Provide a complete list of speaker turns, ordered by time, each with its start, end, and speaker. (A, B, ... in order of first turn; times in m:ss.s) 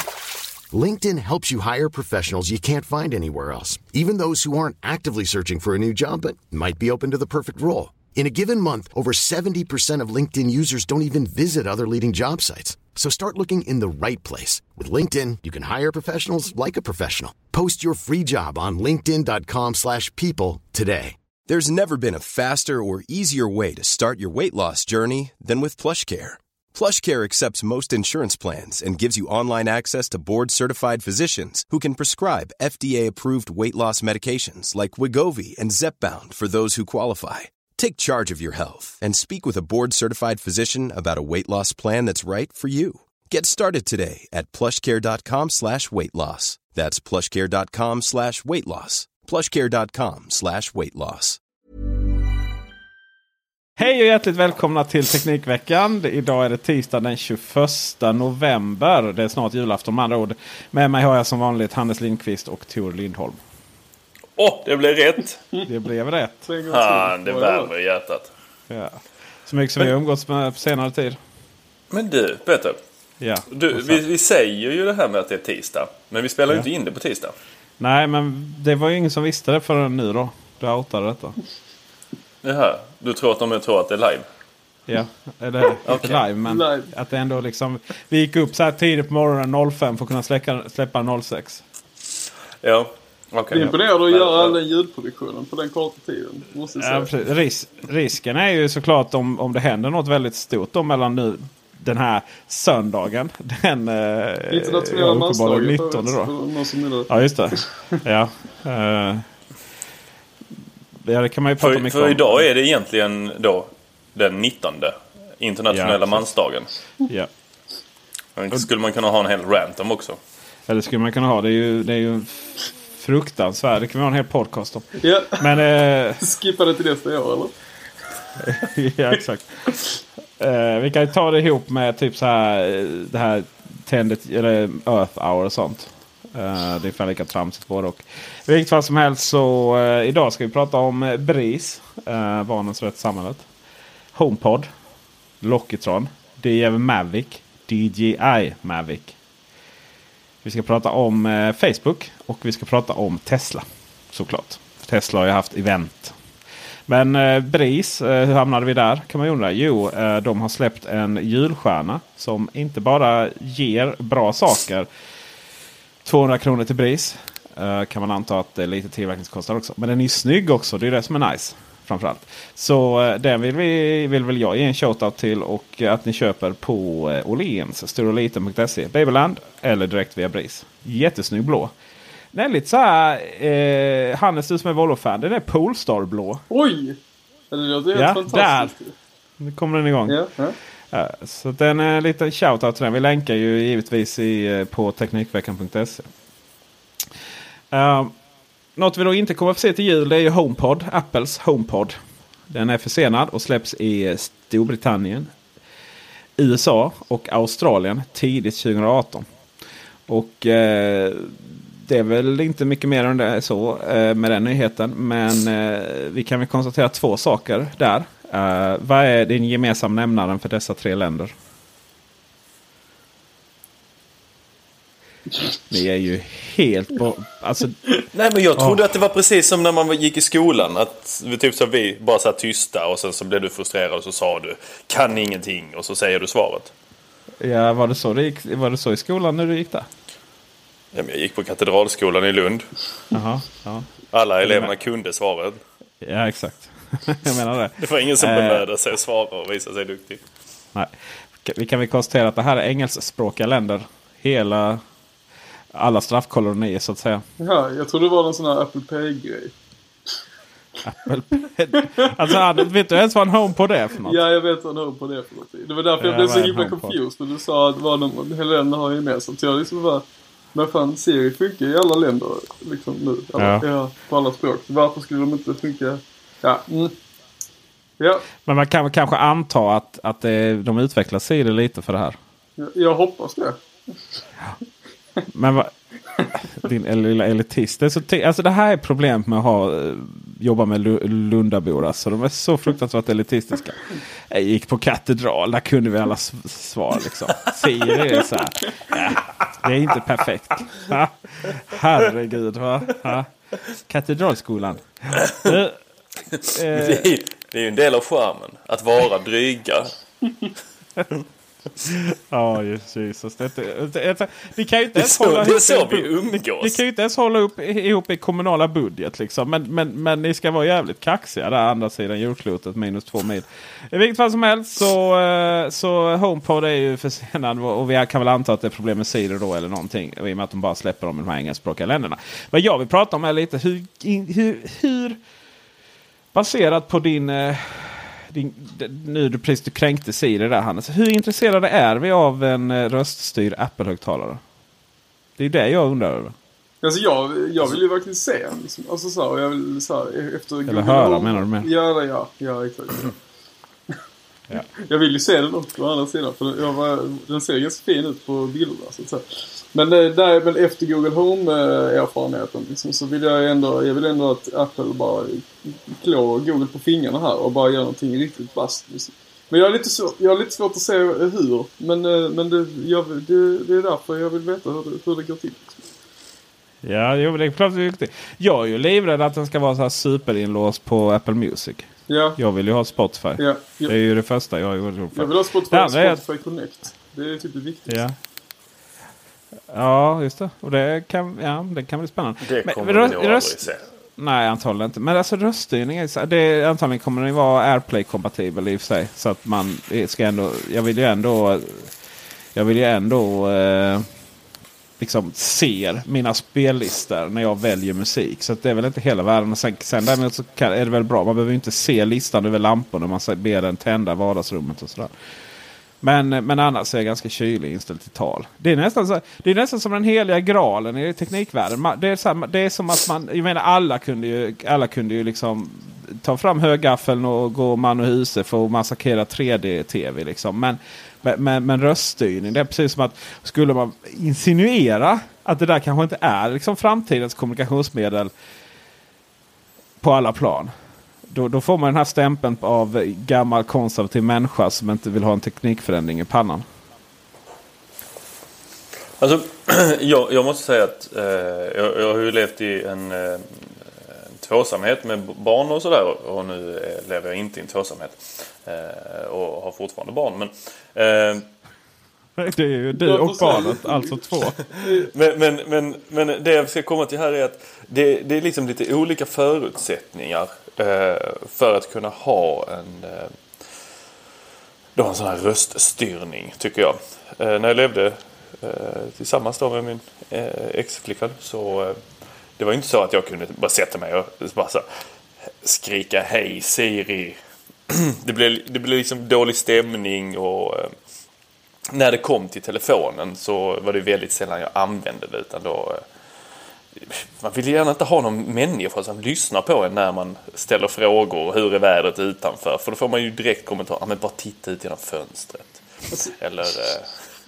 0:00.7-0:21.2 A
0:21.4-0:51.4 B
0:53.8-1:03.4 C
1:04.4-1:05.4 D
1:05.6-1:06.5 C
1:06.5-1:07.7 E
1:06.7-1:08.3 D
1:08.7-1:11.2 C
1:11.9-1:12.8 D
1:13.2-1:14.0 C
1:13.5-1:17.3 D
1:17.8-1:21.4 C
1:22.4-1:24.2 D
1:24.9-1:31.6 C
1:25.8-1:26.2 D
1:26.4-1:26.9 E
1:32.6-1:34.6 D
1:33.5-1:37.1 E
1:36.8-1:46.3 C
1:44.5-1:47.6 E
1:47.1-1:49.2 C
1:51.0-1:52.5 C
1:51.6-1:56.7 D
1:55.7-1:56.3 C
1:58.4-2:00.2 D
2:00.7-2:04.9 C
2:05.0-2:05.5 E
2:05.4-2:06.2 C
2:06.2-2:07.5 E
2:08.4-2:09.7 C
2:10.4-2:23.5 C
2:24.1-2:24.7 C
2:25.4-2:29.2 C
2:30.4-2:36.2 C
2:36.9-2:44.9 C
2:46.0-3:01.7 C
3:02.3-3:06.4 C
3:06.5-3:07.0 E
3:07.5-3:08.9 E
3:07.9-3:08.7 C
3:09.4-3:10.2 C
3:10.1-3:10.6 E
3:10.9-3:16.1 C
3:17.7-3:18.1 C
3:18.8-3:22.0 C
3:22.5-3:25.3 C
3:26.4-3:29.3 C
3:30.1-3:41.3 C
3:45.7-3:47.9 C
3:48.1-3:56.7 D
3:57.4-3:59.9 C
4:00.9-4:02.7 D
4:03.1-4:03.9 C
4:04.1-4:05.6 D
4:04.4-4:04.7 C
4:06.0-4:08.6 C
4:07.8-4:10.2 D
4:11.4-4:14.8 C
4:15.7-4:17.2 C
4:17.4-4:19.5 E
4:20.8-4:24.2 C
4:24.0-4:36.9 E
4:26.0-4:27.0 C
4:33.4-4:33.7 C
4:38.0-4:38.2 E
4:38.4-4:42.2 C
4:42.6-4:43.6 E
4:45.3-4:45.7 C
4:46.6-5:03.3 C
5:03.9-5:05.8 C
5:05.2-5:05.5 D
5:06.3-5:09.9 D
5:06.5-5:07.1 C
5:11.8-5:35.2 C
5:14.9-5:16.8 D
5:36.3-5:44.4 C
5:45.4-5:46.3 C
5:46.8-5:53.2 E
5:50.7-5:51.7 C
5:54.5-6:15.8 E
6:16.8-6:26.2 C
6:22.1-6:22.4 E
6:23.4-6:23.9 E
6:25.1-6:28.0 E
6:27.9-6:28.2 C
6:29.7-6:33.6 C
6:32.4-6:33.9 D
6:34.2-6:41.9 C
6:42.5-6:44.1 C
6:45.0-6:55.1 C
6:56.0-7:18.3 C
7:20.0-7:20.7 C
7:21.3-7:26.6 C
7:29.2-7:33.6 D
7:34.4-7:41.5 D
7:42.4-7:44.6 C
7:43.0-7:44.2 E
7:44.8-7:45.1 E
7:45.1-7:53.3 D
7:55.0-8:02.0 D
8:02.6-8:04.8 D
8:05.6-8:07.4 D
8:07.9-8:10.9 D
8:11.9-8:16.0 D
8:17.0-8:25.8 D
8:26.4-8:27.2 D